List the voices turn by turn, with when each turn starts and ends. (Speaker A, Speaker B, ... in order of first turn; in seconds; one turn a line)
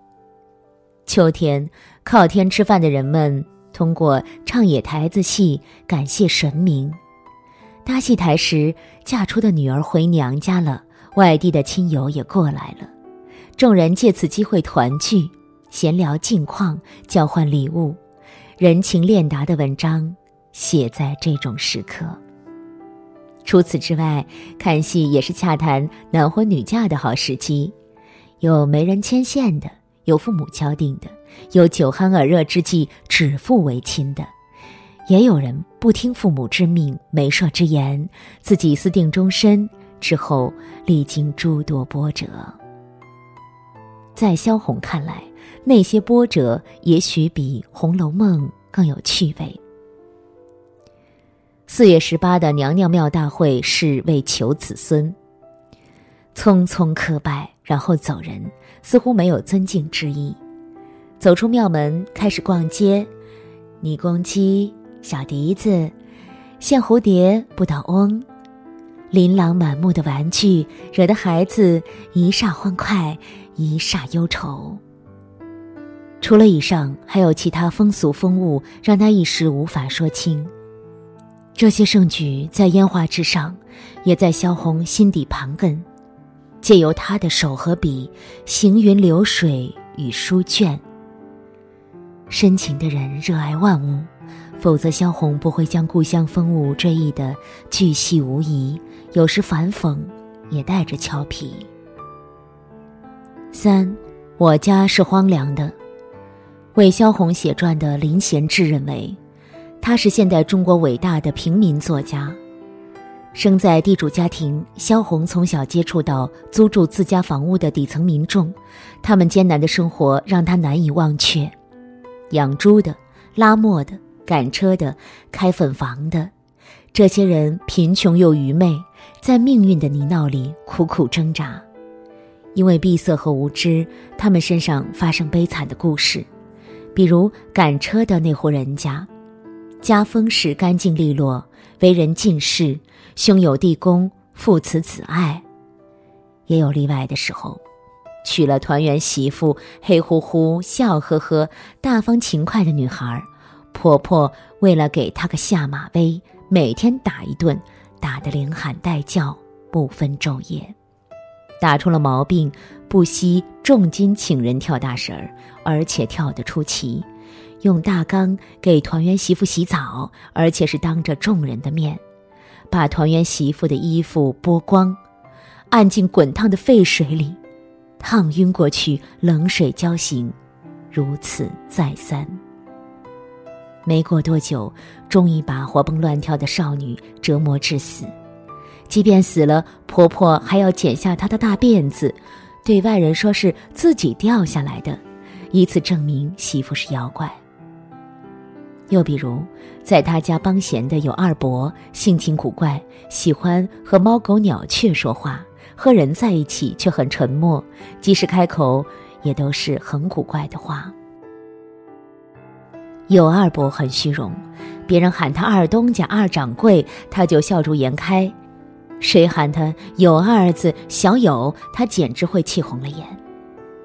Speaker A: 1.1-7.0
Speaker A: 7.8-12.9
Speaker A: 13.6-18.0
Speaker A: 18.6-22.2
Speaker A: 23.4-27.8
Speaker A: 28.4-34.3
Speaker A: 35.1-42.6
Speaker A: 44.1-49.6
Speaker A: 51.7-55.2
Speaker A: 56.4-60.4
Speaker A: 61.2-63.1
Speaker A: 63.8-65.9
Speaker A: 66.6-68.3
Speaker A: 69.1-74.8
Speaker A: 76.2-80.5
Speaker A: 81.6-85.9
Speaker A: 86.6-90.8
Speaker A: 92.3-101.7
Speaker A: 103.5-105.8
Speaker A: 106.8-109.2
Speaker A: 109.8-112.4
Speaker A: 113.3-121.5
Speaker A: 122.3-126.3
Speaker A: 126.9-131.6
Speaker A: 132.5-136.3
Speaker A: 136.9-139.1
Speaker A: 139.8-145.4
Speaker A: 146.5-147.6
Speaker A: 148.2-160.8
Speaker A: 161.6-167.1
Speaker A: 167.6-172.0
Speaker A: 172.7-175.0
Speaker A: 175.7-177.4
Speaker A: 178.0-180.3
Speaker A: 180.9-182.4
Speaker A: 183.8-188.1
Speaker A: 188.9-197.4
Speaker A: 198.9-210.9
Speaker A: 213.1-218.4
Speaker A: 219.0-223.2